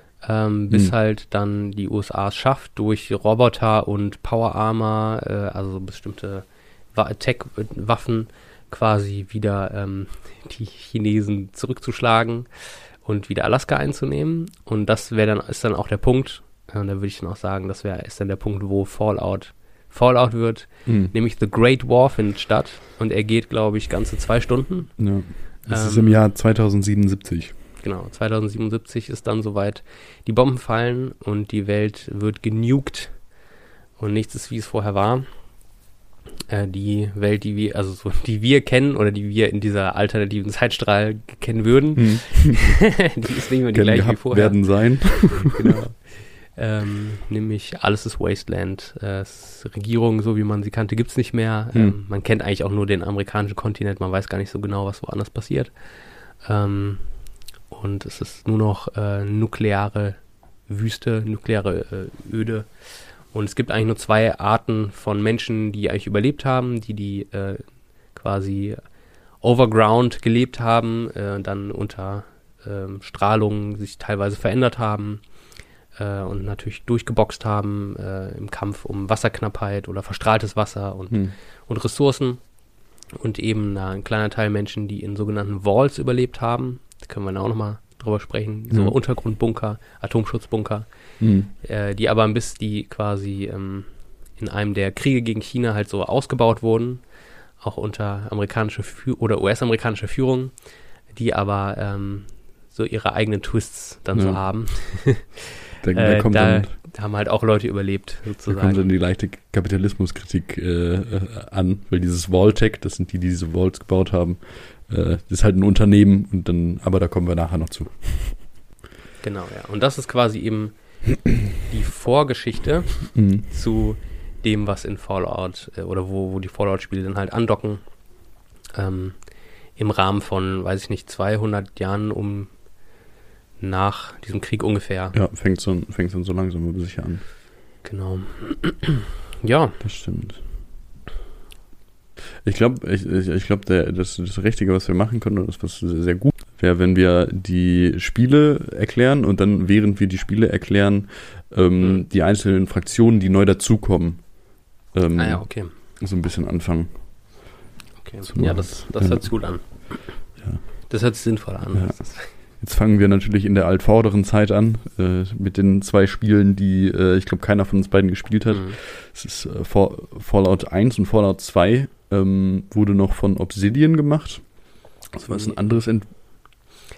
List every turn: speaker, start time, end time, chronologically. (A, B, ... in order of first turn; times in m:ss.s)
0:00.2-0:26.2 A
0:20.8-0:21.1 B
0:25.0-0:27.6 B
0:27.8-0:33.3 A
0:34.0-0:35.7 A
0:36.5-0:55.8 A
0:41.9-0:42.8 B
0:43.7-0:45.5 B
0:56.4-0:57.1 A
0:57.7-1:02.7 A
1:03.3-1:08.8 A
1:09.4-1:15.2 A
1:15.9-1:22.4 A
1:23.1-1:30.9 A
1:28.7-1:29.0 B
1:31.2-1:31.5 B
1:31.4-1:40.5 A
1:41.1-1:48.8 A
1:44.1-1:45.1 B
1:45.8-1:46.7 B
1:48.5-1:58.5 B
1:59.2-2:08.0 A
2:03.1-2:03.4 B
2:08.7-2:12.5 A
2:13.6-2:15.2 A
2:15.1-2:17.3 B
2:17.8-2:19.8 A
2:19.8-2:20.4 B
2:22.4-2:37.5 B
2:35.1-2:35.7 A
2:38.0-2:42.3 A
2:38.2-2:40.9 B
2:41.7-2:56.1 B
2:48.5-2:48.8 A
2:55.1-2:55.8 A